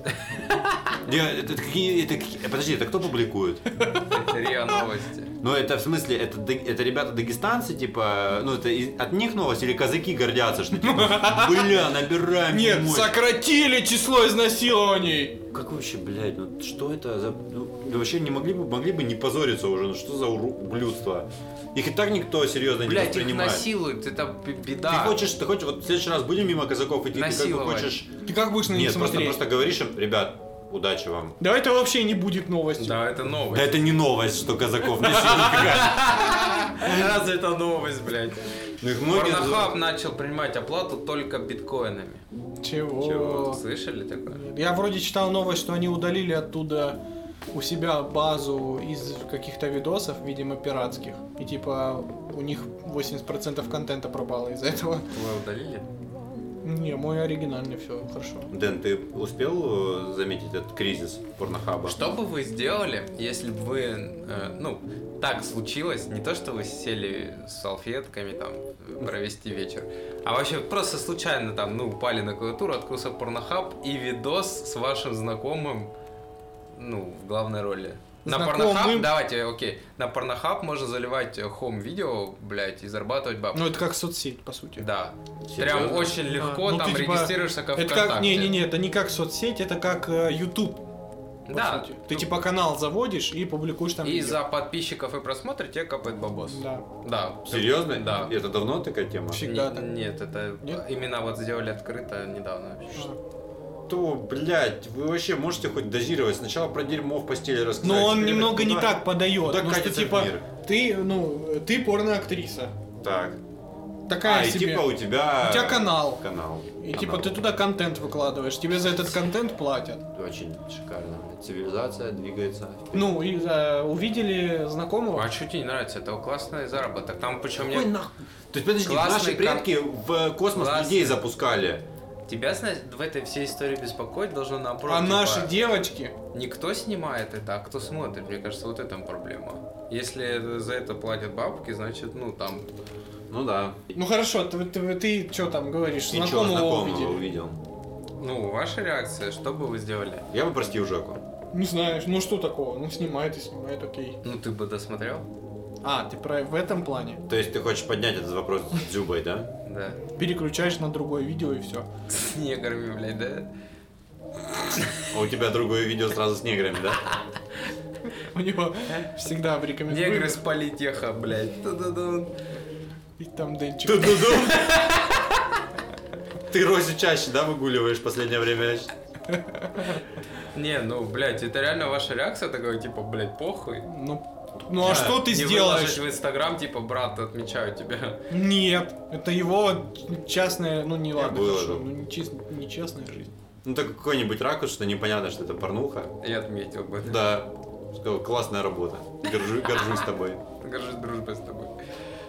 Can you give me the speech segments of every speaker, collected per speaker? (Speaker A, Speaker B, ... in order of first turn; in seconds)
Speaker A: 0.2-0.9, 4.1-5.3, 22.8-25.2, 27.1-28.0, 32.8-33.8, 35.1-38.4, 39.1-42.2, 43.1-44.4, 55.1-55.9, 61.9-75.9, 76.7-83.7, 84.8-88.6, 91.5-92.3, 94.0-98.3, 99.4-103.1, 125.1-127.9, 128.8-129.7, 130.5-131.2, 132.3-135.5, 136.3-142.7, 148.2-150.3, 154.2-155.3, 159.6-160.0, 162.1-163.5, 169.9-172.3, 174.2-175.4, 180.5-183.9, 184.8-188.2, 196.2-197.3, 199.2-200.1, 200.6-201.7
Speaker B: 1.0-3.6, 5.4-13.2, 15.5-23.7, 24.9-28.1, 28.6-31.4, 33.5-36.1, 38.8-39.7, 58.5-62.0, 85.5-86.2, 97.5-99.5, 103.9-110.4, 113.0-113.4, 114.2-117.4, 120.1-123.1, 127.6-131.8, 143.3-143.8, 146.1-147.6, 150.3-151.2, 157.3-159.5, 165.1-167.0, 173.8-174.8, 176.5-178.9, 184.8-185.2, 191.2-191.9, 193.6-196.1, 197.0-200.4
Speaker C: 3.7-4.1, 10.8-11.9, 12.5-15.4, 28.2-29.4, 31.4-33.0, 35.1-35.9, 42.6-43.6, 44.3-47.0, 47.5-55.1, 56.6-58.5, 78.2-79.1, 83.5-84.8, 86.3-90.8, 91.5-94.4, 96.5-96.8, 99.3-100.0, 107.8-112.7, 114.1-116.2, 116.8-120.0, 122.9-125.3, 134.9-136.1, 143.9-147.2, 151.5-154.2, 155.8-157.2, 160.2-161.9, 168.1-170.4, 173.2-174.4, 179.3-180.0, 183.8-186.0, 188.3-193.3